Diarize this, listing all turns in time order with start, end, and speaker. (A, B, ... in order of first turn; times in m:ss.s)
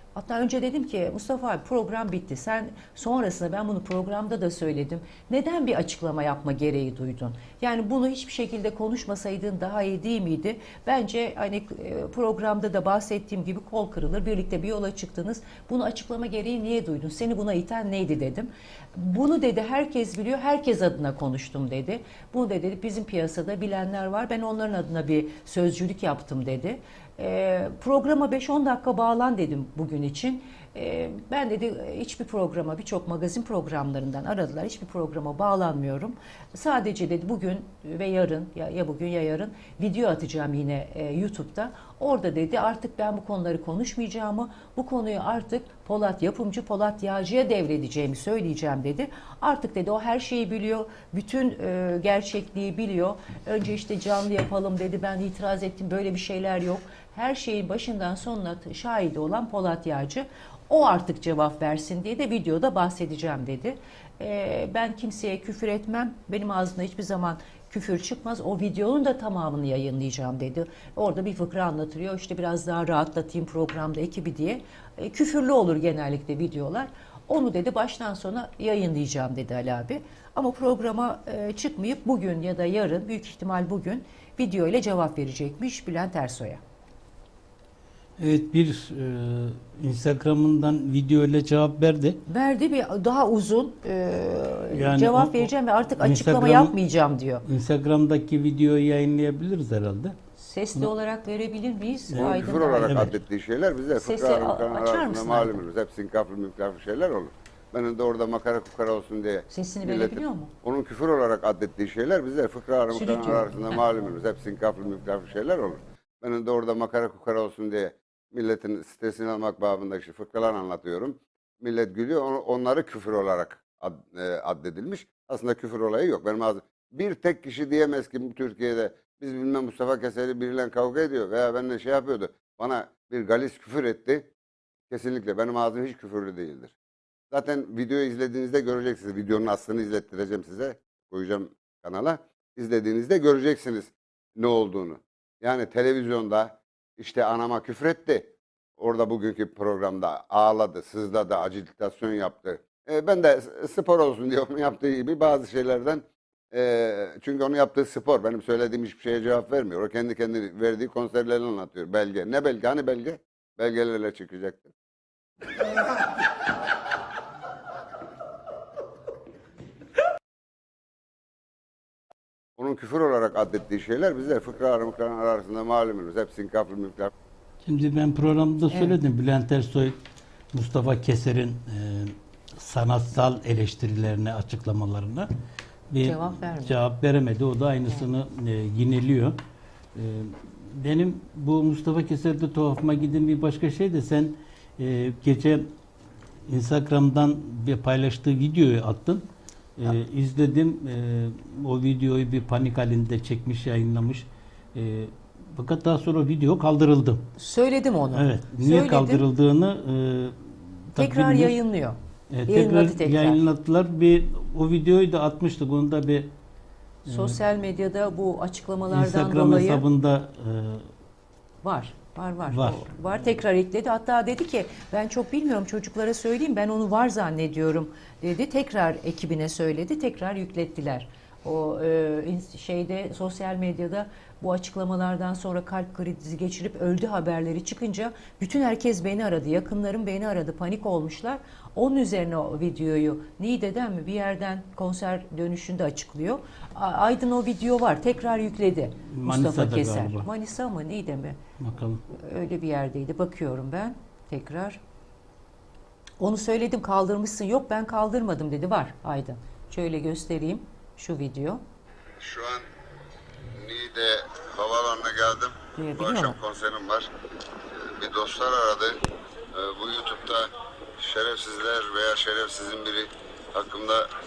0:00.2-1:26.6 A
1:28.2-1:32.2 B
1:32.3-1:37.4 A
1:34.7-1:36.8 B
1:37.5-1:40.2 B
1:40.4-1:43.1 A
1:42.1-1:43.1 B
1:42.2-2:14.3 C
1:44.0-1:45.6 A
1:49.5-1:50.5 A
1:52.9-1:53.8 A
2:14.9-2:16.8 C
2:17.3-2:44.7 C
2:52.6-2:57.1 C
2:57.6-3:00.0 B
3:00.5-3:05.3 B
3:05.9-3:09.4 B
3:06.0-3:06.8 A
3:10.0-3:15.7 B
3:16.5-3:19.3 B
3:19.8-3:27.3 B
3:27.4-3:29.2 A
3:28.1-3:31.5 B
3:31.0-3:33.4 A
3:32.3-3:36.3 B
3:37.1-3:39.8 A
3:37.1-3:37.4 B
3:38.9-3:40.9 B
3:41.6-4:11.4 A
3:42.5-3:42.9 B
4:09.1-4:10.3 B
4:11.6-4:12.0 B
4:12.1-4:14.8 A
4:16.2-4:21.6 A
4:22.2-4:22.7 C
4:23.6-4:27.1 C
4:25.8-4:26.4 A
4:28.0-4:29.0 C
4:29.5-4:34.1 C